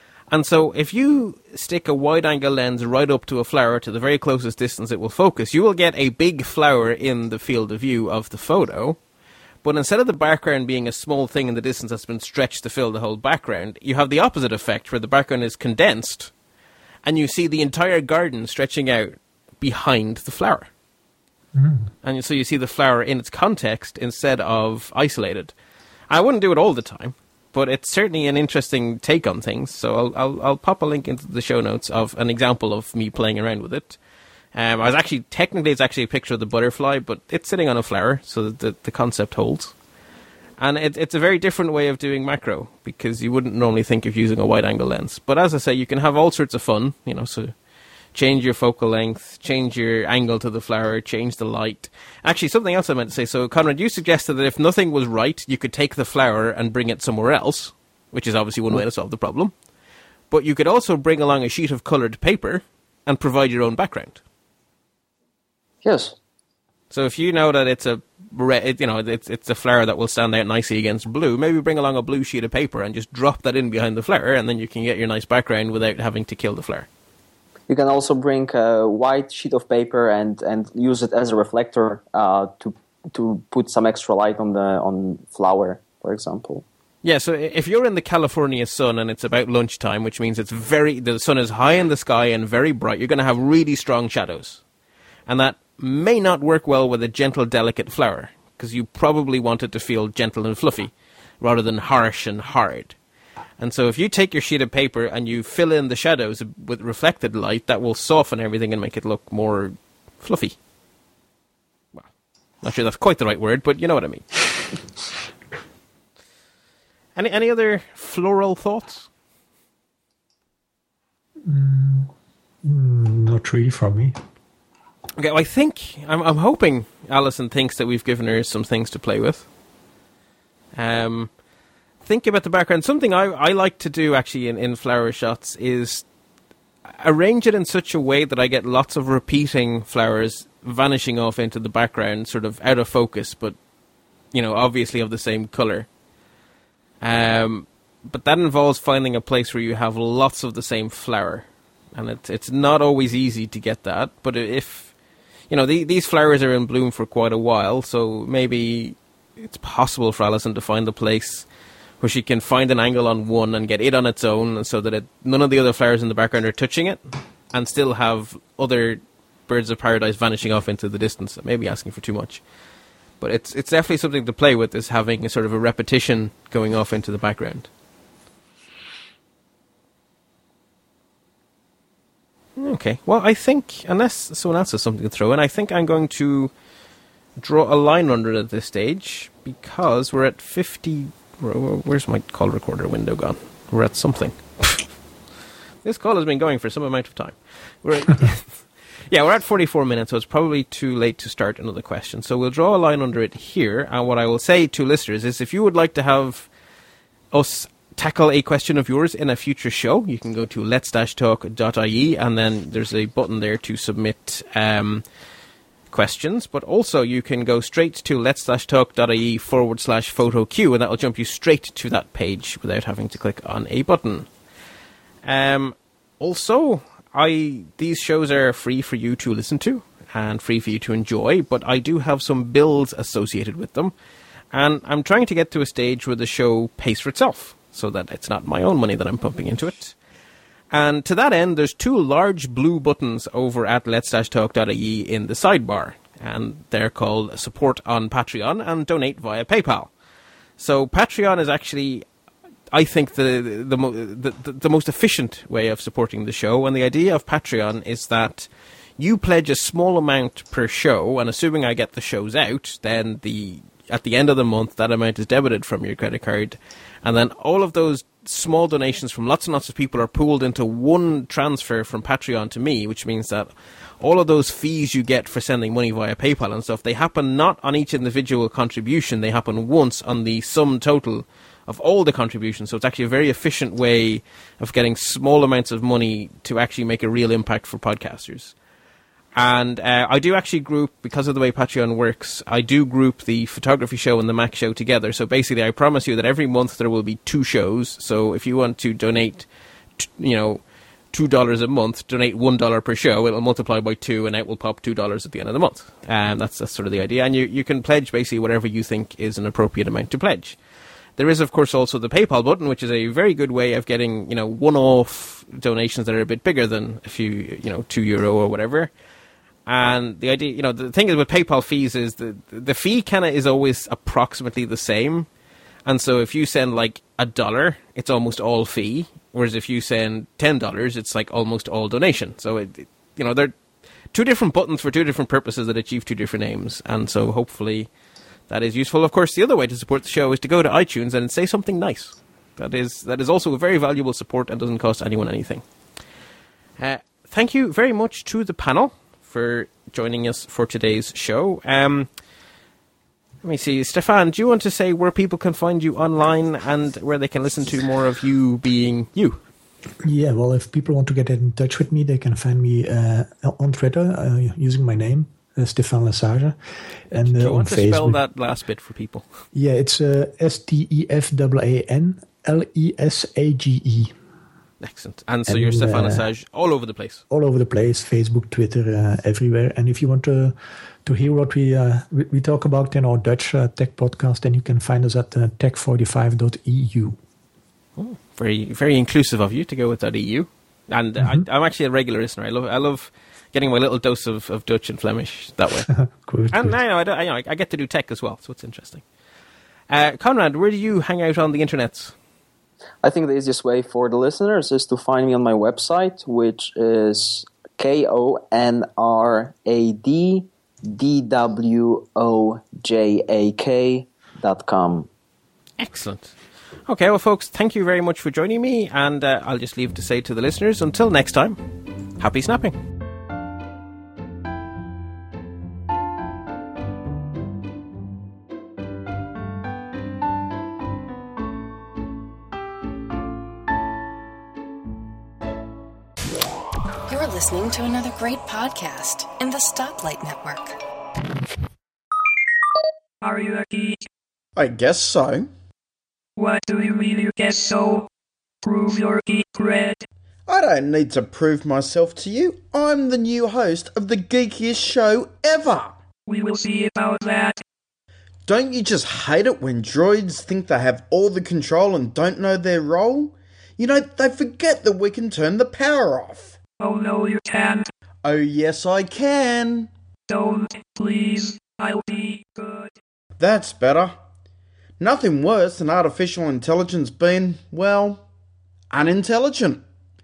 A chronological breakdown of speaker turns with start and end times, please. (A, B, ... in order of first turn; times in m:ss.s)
0:00.3-0:09.0 A
0:09.6-0:16.3 A
0:17.0-0:20.7 A
0:21.5-0:21.9 B
0:22.0-0:25.5 A
0:26.1-0:34.0 A
0:34.5-0:39.7 A
0:40.6-0:47.5 A
0:48.1-0:59.5 A
1:00.3-1:04.2 A
1:05.8-1:06.2 C
1:06.9-1:16.9 A
1:17.7-1:26.6 C
1:27.0-1:34.6 A
1:35.3-1:43.0 A
1:43.6-1:50.6 A
1:52.6-1:54.2 A
1:57.2-1:59.1 A
2:01.4-2:02.1 B
2:02.6-2:04.1 B
2:05.2-2:09.5 A
2:10.7-2:11.3 A
2:12.0-2:16.0 A
2:16.9-2:23.6 A
2:24.3-2:25.9 A
2:27.0-2:34.9 A
2:35.5-2:41.5 A
2:42.0-2:52.4 A
2:53.2-2:57.7 A
3:02.6-3:06.5 A
3:07.4-3:14.9 A
3:15.8-3:26.5 A
3:27.3-3:35.0 A
3:35.9-3:44.3 A
3:45.2-3:53.9 A
3:54.5-4:00.0 A
4:00.7-4:09.9 A
4:10.6-4:12.0 A
4:12.7-4:48.5 A
4:49.4-5:10.6 A
5:11.2-5:18.9 A
5:19.6-5:25.3 A
5:25.8-5:33.6 A
5:34.1-5:37.9 A
5:38.5-5:45.6 A
5:46.8-5:52.1 A
5:53.4-5:59.4 A
6:00.0-6:06.6 B
6:07.1-6:08.2 B
6:07.2-6:09.3 A
6:09.5-6:14.1 B
6:14.8-6:17.2 A
6:15.5-6:16.2 B
6:17.3-6:27.2 B
6:28.0-6:35.9 A
6:31.2-6:31.4 B
6:35.9-6:36.7 B
6:36.5-6:39.0 A
6:39.9-6:42.1 A
6:43.0-6:55.1 C
6:55.8-6:56.3 A
6:56.9-7:01.6 A
7:02.2-7:02.8 A
7:17.1-7:20.8 D
7:23.2-7:24.0 E
7:24.6-7:25.5 F
7:26.4-7:28.1 E
7:28.6-7:30.0 E
7:30.5-7:35.9 F
7:36.3-7:37.6 E
7:38.5-7:46.6 F
7:46.8-7:47.9 E
7:48.2-7:49.9 F
7:50.3-7:52.9 E
7:53.4-7:54.2 F
7:55.0-7:58.2 F
7:58.9-7:59.8 F